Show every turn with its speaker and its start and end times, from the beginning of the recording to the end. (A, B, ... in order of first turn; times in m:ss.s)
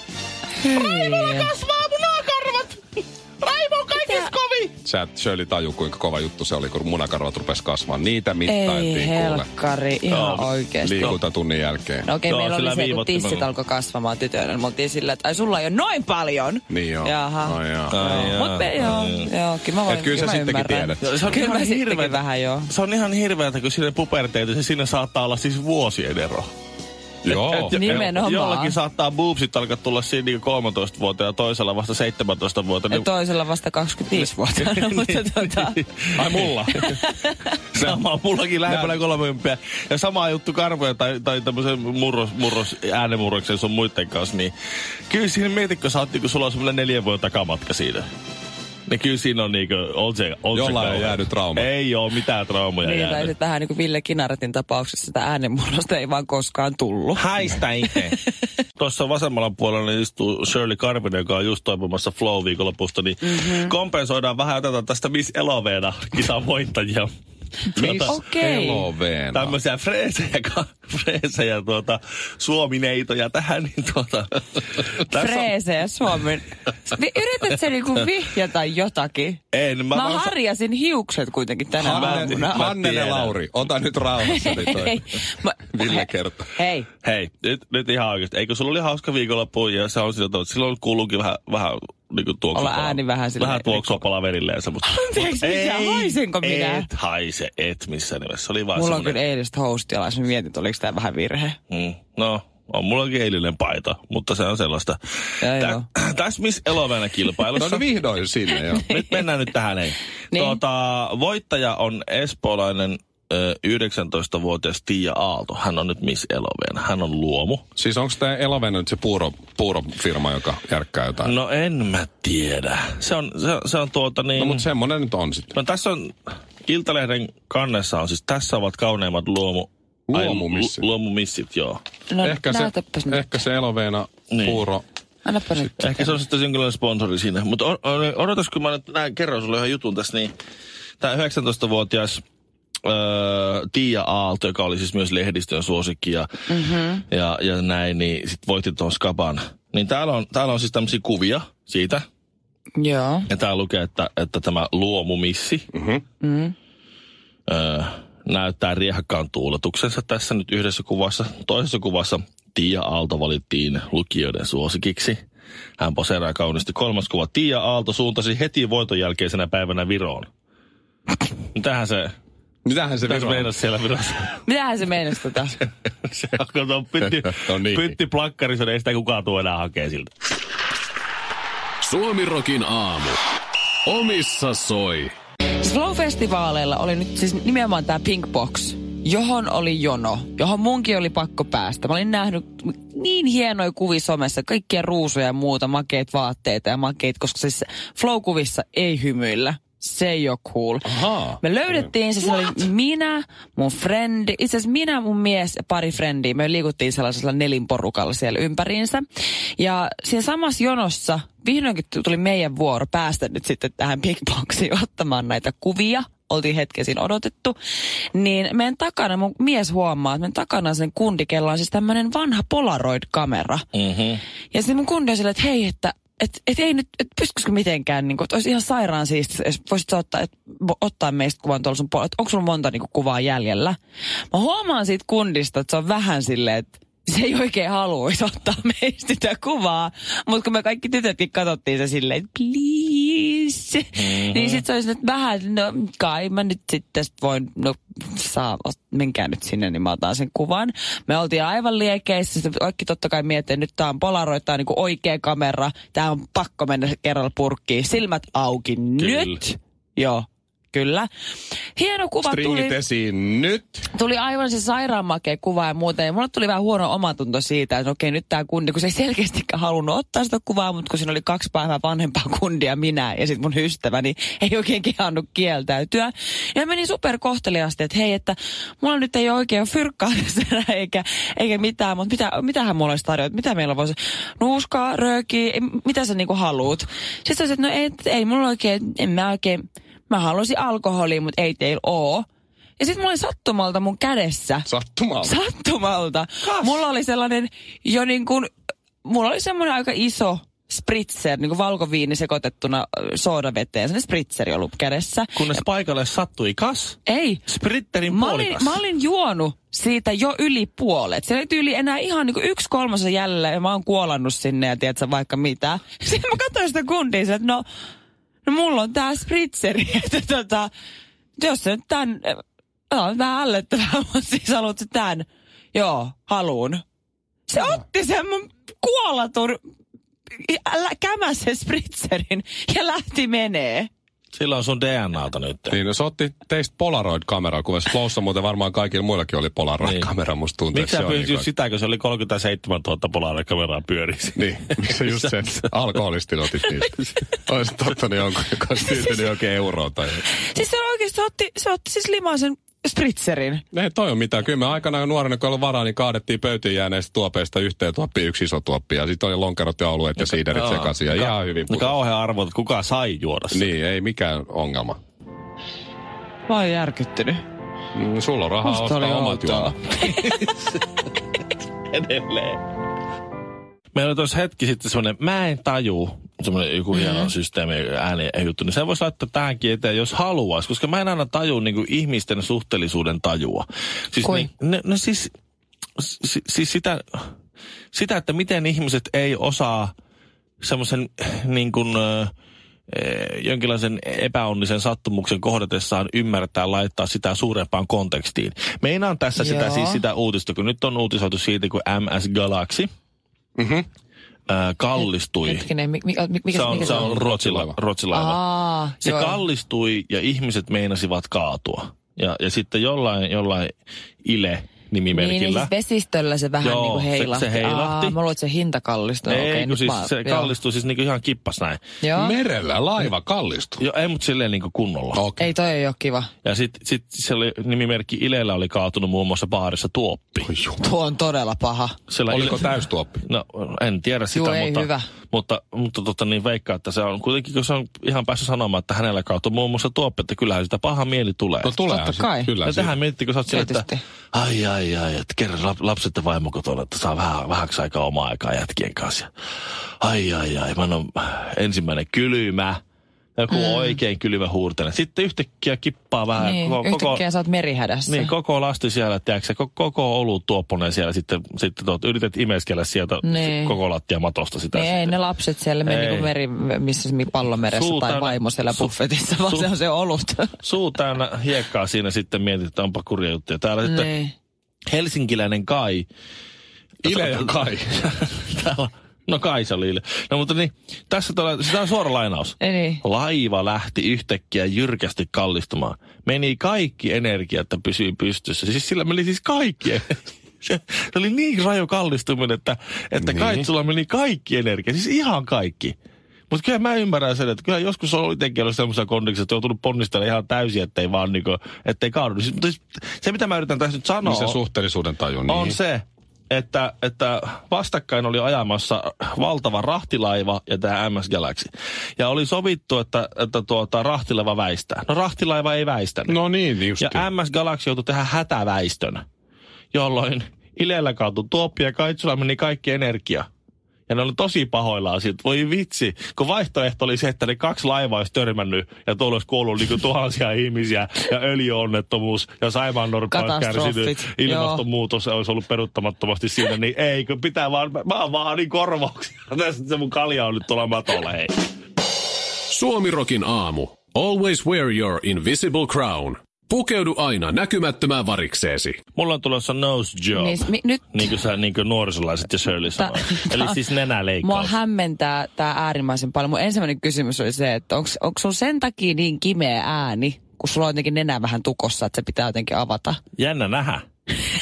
0:00.6-0:01.5 A
0:00.7-0:04.7 B
0:04.0-0:04.3 A
0:04.8-0:09.5 C
0:08.5-0:11.1 A
0:10.1-0:11.2 B
0:10.8-0:12.1 C
0:12.0-0:22.7 A
0:12.3-0:13.5 B
0:16.7-0:18.4 C
0:17.9-0:19.3 B
0:19.9-0:21.3 C
0:21.0-0:26.5 B
0:27.2-0:28.2 C
0:27.3-0:33.1 B
0:27.6-0:28.8 A
0:32.9-0:35.8 A
0:34.2-0:36.9 B
0:36.2-0:36.9 C
0:36.8-0:37.4 A
0:37.7-0:44.5 B
0:38.7-0:39.0 C
0:45.1-0:48.1 B
0:48.9-0:53.3 B
0:50.5-0:51.7 C
0:52.8-0:57.3 A
0:57.2-0:58.2 B
0:58.8-1:07.1 B
1:03.2-1:03.7 A
1:07.8-1:08.9 A
1:07.8-1:08.2 B
1:07.8-1:09.6 C
1:09.3-1:15.5 B
1:15.1-1:19.4 A
1:19.5-1:20.3 B
1:19.9-1:23.4 A
1:21.8-1:25.0 C
1:21.8-1:23.2 B
1:24.2-1:26.9 A
1:25.7-1:26.5 C
1:27.0-1:39.2 B
1:32.5-1:34.0 A
1:34.9-1:36.9 A
1:38.7-1:41.6 A
1:41.7-1:45.0 B
1:45.4-1:45.9 A
1:45.5-1:47.8 B
1:47.6-1:48.9 C
1:48.9-1:57.6 B
1:50.3-1:50.6 A
1:57.8-2:01.3 C
2:01.2-2:04.7 B
2:04.4-2:05.5 C
2:05.5-2:06.1 B
2:06.7-2:11.8 B
2:10.1-2:10.9 C
2:12.1-2:13.3 A
2:12.2-2:14.8 C
2:14.3-2:14.7 B
2:15.2-2:16.2 A
2:15.8-2:20.3 B
2:21.0-2:22.2 B
2:22.8-2:26.3 B
2:26.5-2:27.0 A
2:27.1-2:32.0 B
2:32.8-2:33.3 A
2:33.3-2:35.6 B
2:35.7-2:36.0 C
2:36.2-2:36.6 A
2:37.5-2:45.2 B
2:45.8-2:50.3 B
2:51.6-2:52.1 B
2:52.6-2:53.5 C
2:53.1-2:54.4 B
2:54.4-2:55.6 A
2:56.0-3:00.1 B
2:57.0-2:58.0 C
3:01.8-3:03.2 D
3:03.9-3:05.1 D
3:05.6-3:29.0 A
3:20.8-3:21.8 C
3:29.6-3:37.6 A
3:38.1-3:43.7 A
3:43.7-3:44.2 B
3:44.5-3:53.8 A
3:54.3-4:21.1 A
4:04.0-4:04.6 B
4:19.0-4:19.4 B
4:21.8-4:22.8 A
4:22.3-4:23.9 C
4:23.9-4:52.3 A
4:52.8-4:54.7 A
4:54.7-4:55.4 C
4:55.2-4:58.5 A
4:56.4-4:56.8 B
4:59.0-5:05.6 A
5:05.4-5:08.8 B
5:07.1-5:07.4 A
5:08.1-5:17.6 A
5:18.4-5:20.7 A
5:21.4-5:26.8 A
5:27.5-5:29.6 A
5:30.4-5:33.9 A
5:34.3-5:35.8 B
5:35.7-5:41.5 C
5:39.8-5:40.1 B
5:40.7-5:45.7 B
5:44.4-5:50.2 C
5:50.5-5:53.6 A
5:53.7-6:01.9 C
6:00.2-6:03.7 B
6:03.5-6:05.0 C
6:06.5-6:07.4 A
6:08.0-6:09.8 C
6:08.6-6:10.2 A
6:10.0-6:10.8 B
6:11.9-6:12.6 B
6:14.0-6:25.3 B
6:16.9-6:17.3 A
6:26.0-6:27.2 B
6:27.9-6:29.9 B
6:30.6-6:32.3 B
6:32.9-6:42.9 B
6:39.4-6:40.0 A
6:43.6-6:43.9 C
6:44.5-6:45.6 B
6:45.4-6:47.1 A
6:46.5-6:48.4 B
6:46.6-6:47.8 C
6:48.1-6:49.4 A
6:49.0-6:53.7 B
6:54.2-6:55.7 B
6:55.1-7:00.5 A
6:56.6-6:58.2 B
6:59.3-7:01.8 B
7:02.0-7:02.4 A
7:02.1-7:03.8 C
7:03.8-7:05.2 B
7:05.1-7:05.5 C
7:05.4-7:06.3 A
7:06.4-7:10.5 B
7:10.4-7:10.8 C
7:10.8-7:12.0 A
7:12.1-7:21.8 B
7:12.3-7:13.2 C
7:14.3-7:15.1 A
7:21.6-7:22.9 C
7:21.9-7:22.5 A
7:22.6-7:29.3 B
7:23.5-7:24.0 A
7:30.0-7:32.8 B
7:33.4-7:37.2 B
7:33.5-7:34.0 A
7:36.4-7:38.3 A
7:38.1-7:45.2 B
7:43.2-7:43.8 A
7:44.7-7:50.6 A
7:45.8-7:46.3 B
7:47.7-7:48.9 B
7:49.5-7:49.7 B
7:50.6-7:54.1 B
7:53.8-7:54.3 A
7:54.9-7:56.1 B
7:57.0-8:16.0 B
7:57.0-7:58.0 C
8:02.6-8:03.0 A
8:13.2-8:13.7 C
8:16.5-8:24.6 B
8:24.2-8:25.8 C
8:25.5-8:36.4 B
8:36.3-8:37.3 C
8:37.0-8:39.2 B
8:39.9-8:43.5 B
8:44.1-9:01.6 B
8:53.3-8:54.8 A
9:02.7-9:09.0 D
9:09.2-9:14.8 B
9:10.3-9:11.3 A
9:12.9-9:13.8 A
9:14.4-9:23.2 A
9:23.4-9:24.0 B